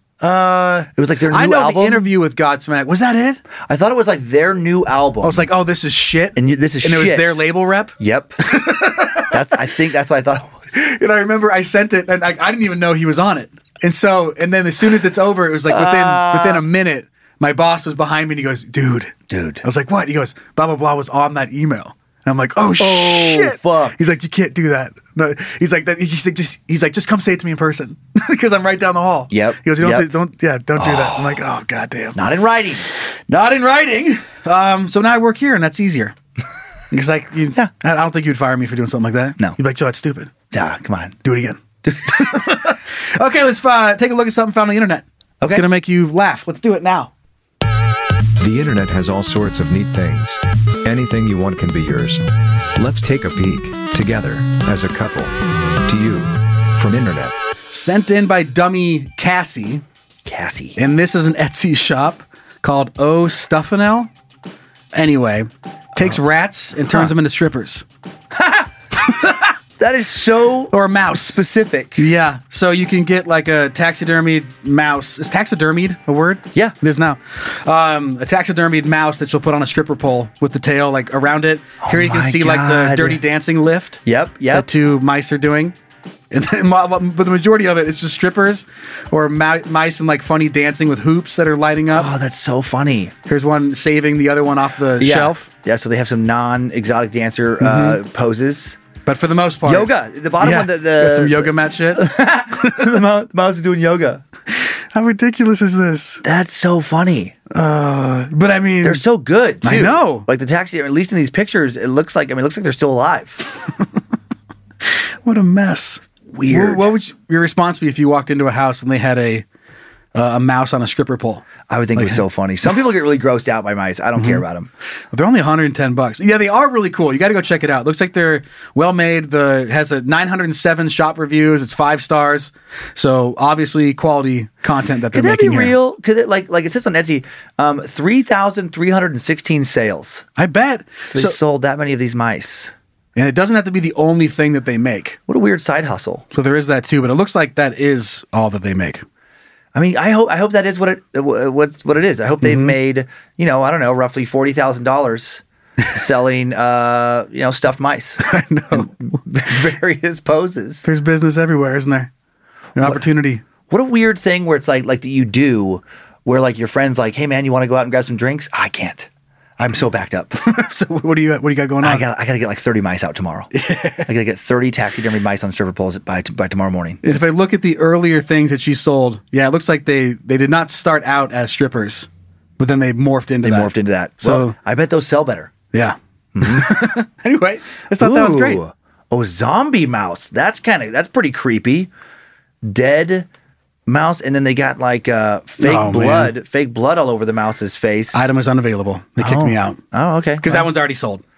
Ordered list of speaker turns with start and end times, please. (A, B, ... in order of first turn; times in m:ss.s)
0:00.2-0:03.4 A
0:01.0-0:02.1 B
0:03.6-0:05.5 B
0:05.2-0:09.4 A
0:06.4-0:07.4 B
0:08.0-0:08.5 B
0:09.3-0:10.7 B
0:10.7-0:32.2 A
0:15.7-0:16.6 B
0:19.3-0:19.6 B
0:22.8-0:24.0 B
0:29.3-0:30.1 B
0:30.8-0:31.4 B
0:32.1-0:32.9 B
0:33.3-0:36.2 A
0:36.9-0:40.3 A
0:40.5-0:41.2 B
0:41.2-0:47.1 A
0:41.9-0:42.4 B
0:48.4-0:52.2 C
0:52.8-0:55.3 C
0:55.9-0:57.4 C
0:57.7-0:59.8 A
1:00.2-1:00.8 B
1:00.8-1:04.1 A
1:04.9-1:07.8 A
1:08.4-1:08.7 B
1:09.1-1:09.5 A
1:09.8-1:12.1 B
1:10.7-1:11.4 A
1:12.0-1:25.7 A
1:21.8-1:23.2 B
1:24.1-1:24.7 B
1:26.3-1:32.1 A
1:31.9-1:33.2 B
1:33.3-1:35.5 A
1:35.0-1:38.8 B
1:37.6-1:38.0 A
1:39.1-1:42.9 A
1:39.6-1:44.2 B
1:44.5-1:46.2 A
1:46.2-1:47.4 B
1:47.5-1:49.0 A
1:48.8-1:53.5 B
1:49.6-1:50.3 A
1:55.2-1:59.4 A
1:56.3-1:56.9 B
2:00.2-2:02.2 A
2:01.7-2:04.7 B
2:04.2-2:04.4 A
2:05.1-2:15.7 A
2:15.1-2:20.3 B
2:20.4-2:21.4 A
2:21.1-2:22.7 B
2:23.2-2:25.2 A
2:25.3-2:26.2 B
2:26.3-2:29.0 A
2:29.7-2:40.9 B
2:32.4-2:32.8 A
2:38.2-2:39.0 A
2:40.8-2:42.1 A
2:42.8-2:43.4 A
2:42.8-2:43.0 B
2:43.7-2:50.4 B
2:50.4-2:52.0 A
2:51.8-2:53.5 B
2:53.5-2:54.1 A
2:54.0-2:57.0 B
2:57.0-3:02.1 A
3:02.6-3:04.6 A
3:03.4-3:05.5 B
3:05.7-3:08.6 A
3:06.4-3:06.9 B
3:08.0-3:11.9 B
3:12.6-3:13.3 B
3:13.9-3:18.3 B
3:15.6-3:16.3 A
3:18.1-3:19.8 A
3:19.2-3:20.7 B
3:20.4-3:21.2 A